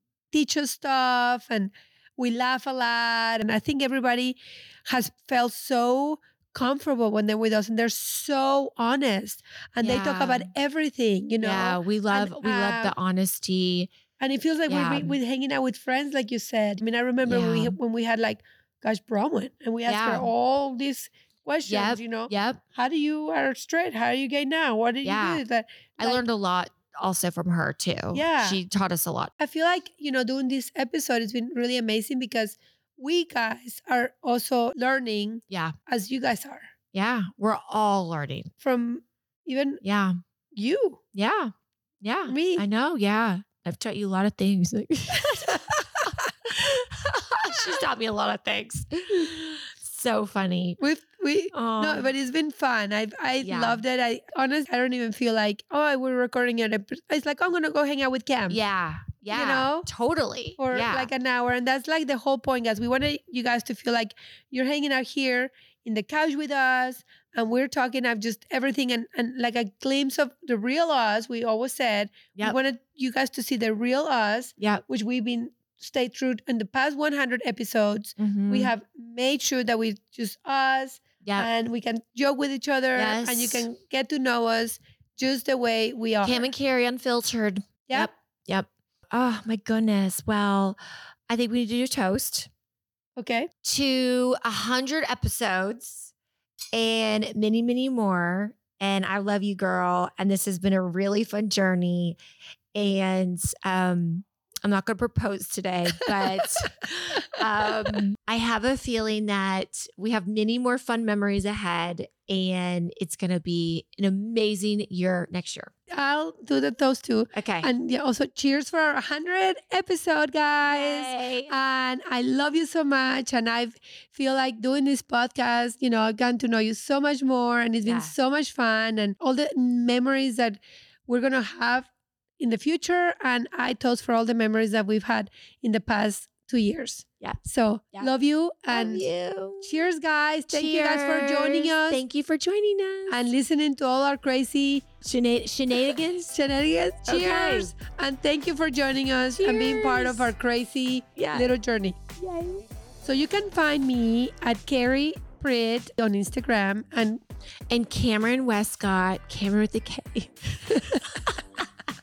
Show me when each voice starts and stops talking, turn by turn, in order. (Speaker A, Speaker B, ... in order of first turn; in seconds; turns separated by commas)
Speaker A: 0.3-12.9, Speaker B: 9.8-10.5, Speaker B: 11.4-13.9, Speaker A: 14.2-26.2, Speaker B: 14.7-15.2, Speaker B: 17.2-17.8, Speaker B: 19.9-20.3, Speaker B: 21.7-22.6, Speaker B: 25.0-25.4, Speaker B: 26.0-29.3, Speaker A: 28.1-28.6, Speaker A: 29.4-36.7, Speaker B: 36.9-38.5, Speaker A: 38.6-39.8, Speaker B: 39.8-40.2, Speaker A: 40.5-41.0, Speaker B: 41.1-50.8, Speaker A: 42.3-42.6, Speaker A: 50.8-58.6, Speaker B: 51.5-52.1, Speaker B: 53.4-53.8, Speaker B: 58.5-61.1, Speaker A: 59.3-59.9, Speaker A: 60.6-86.5, Speaker B: 78.2-78.7, Speaker B: 81.2-81.5, Speaker B: 83.0-83.7, Speaker B: 86.2-92.5, Speaker A: 93.2-93.5, Speaker B: 93.6-96.1, Speaker B: 96.7-102.2, Speaker B: 102.7-115.7, Speaker A: 115.9-139.1, Speaker B: 117.3-117.7, Speaker B: 120.6-121.5, Speaker B: 127.8-128.1, Speaker B: 138.7-139.8, Speaker A: 139.6-142.0, Speaker B: 140.5-143.2, Speaker A: 143.1-144.8, Speaker B: 145.0-146.3, Speaker A: 146.3-152.0, Speaker B: 147.1-147.7, Speaker B: 149.3-150.3, Speaker B: 151.2-151.5, Speaker B: 152.2-152.6, Speaker A: 153.0-157.2, Speaker B: 157.7-161.3